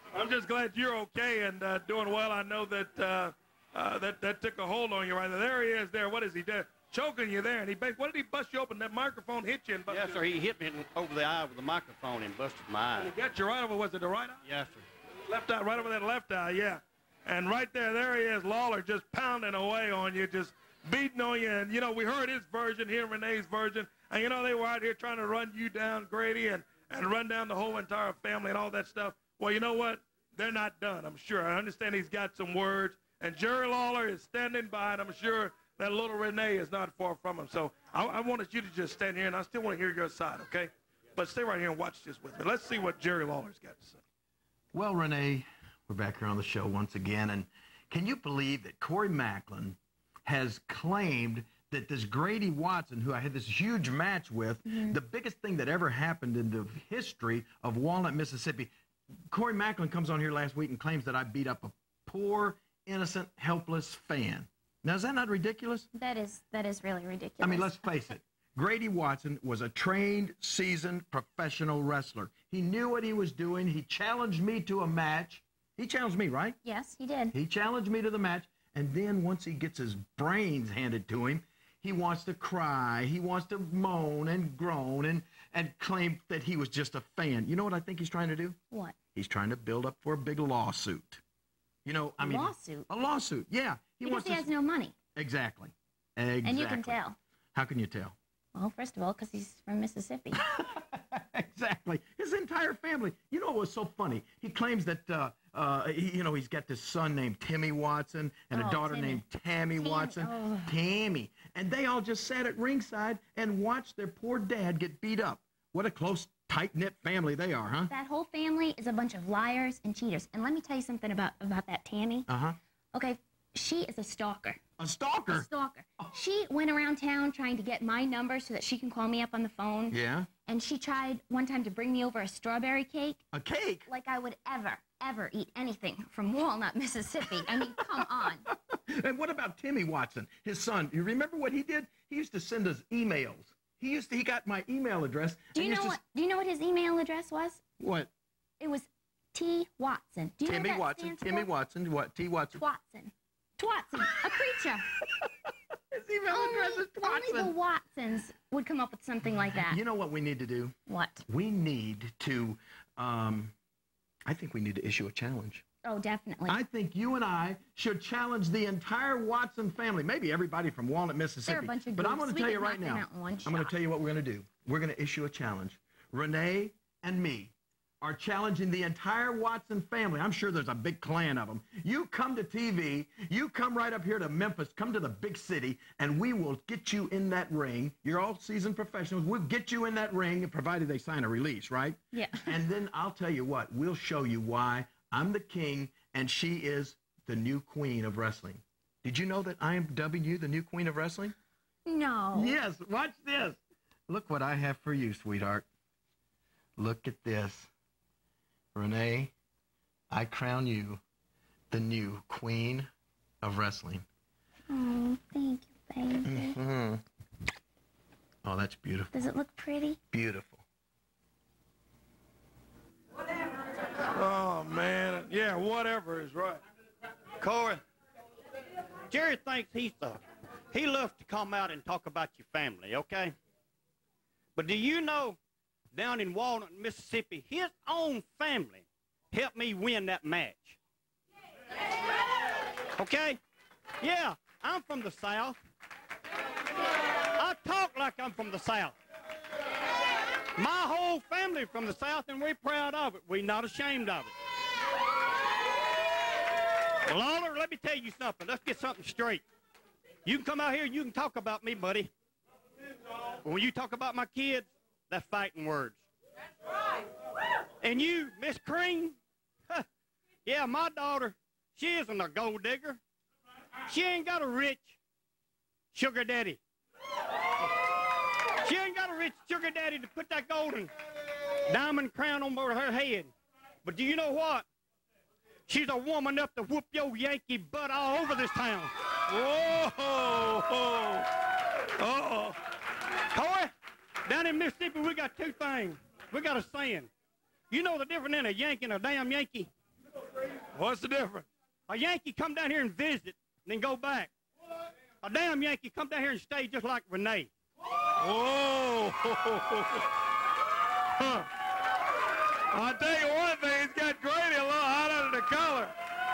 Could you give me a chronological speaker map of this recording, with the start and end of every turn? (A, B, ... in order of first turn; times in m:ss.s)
0:00.1-0:10.2 A
0:09.9-0:13.1 B
0:13.0-0:14.5 A
0:14.4-0:14.8 B
0:15.3-0:44.0 A
0:44.7-0:58.7 C
0:54.6-0:55.0 D
0:59.3-1:05.9 C
1:05.9-1:07.9 D
1:07.4-1:16.6 C
1:16.6-1:17.4 D
1:17.3-1:28.6 C
1:28.7-1:29.0 D
1:29.1-1:31.2 C
1:31.8-1:34.5 C
1:32.2-1:32.9 D
1:34.0-1:35.0 D
1:35.1-1:37.0 C
1:36.4-1:37.2 D
1:37.5-1:38.2 C
1:38.6-1:40.4 D
1:40.5-1:57.9 C
1:48.5-1:49.2 D
1:49.8-1:50.8 D
1:57.9-2:02.3 D
2:02.3-2:02.6 C
2:02.9-2:04.6 D
2:04.8-2:05.5 C
2:05.3-2:13.2 D
2:09.9-2:10.3 C
2:13.3-2:13.9 C
2:13.9-2:18.4 D
2:17.8-2:18.1 C
2:19.0-2:26.0 C
2:25.5-2:27.6 D
2:27.8-2:28.1 C
2:28.6-2:31.5 D
2:30.4-2:32.6 C
2:32.5-2:34.9 D
2:35.9-2:37.5 C
2:36.3-2:39.8 D
2:39.3-2:40.8 C
2:40.9-2:41.2 D
2:41.3-2:43.5 C
2:44.3-2:45.7 C
2:45.8-2:46.6 D
2:46.5-3:21.3 C
2:51.4-2:53.7 D
3:12.1-3:12.6 D
3:21.9-3:22.6 D
3:22.4-3:23.6 C
3:24.1-3:25.7 C
3:26.8-3:27.7 C
3:28.8-3:29.3 C
3:30.1-3:31.0 C
3:31.7-3:32.9 C
3:33.4-3:34.1 C
3:34.7-3:36.6 D
3:36.3-3:37.0 C
3:38.4-3:39.1 C
3:39.1-3:40.0 D
3:40.1-3:40.6 C
3:44.2-3:46.6 A
3:47.4-3:47.8 B
3:49.1-3:50.2 B
3:50.7-3:53.4 B
3:54.6-3:55.4 B
3:55.9-4:00.8 B
4:03.0-4:03.4 B
4:04.0-4:05.6 B
4:07.4-4:09.0 B
4:10.6-4:14.3 B
4:17.0-4:19.4 B
4:20.2-4:22.1 B
4:23.4-4:26.0 B
4:27.8-4:29.2 B
4:30.5-4:33.0 B
4:33.9-4:35.0 B
4:35.9-4:36.6 B
4:38.6-4:40.9 B
4:41.7-4:43.3 B
4:43.8-4:44.7 B
4:45.7-4:48.9 B
4:49.3-4:51.3 A
4:52.0-4:52.6 A
4:53.3-4:53.7 B
4:54.3-4:57.1 B
4:57.7-4:59.7 B
5:00.8-5:01.5 A
5:01.9-5:04.3 B
5:05.2-5:07.5 B
5:08.2-5:10.0 A
5:11.2-5:11.5 A
5:12.7-5:15.9 A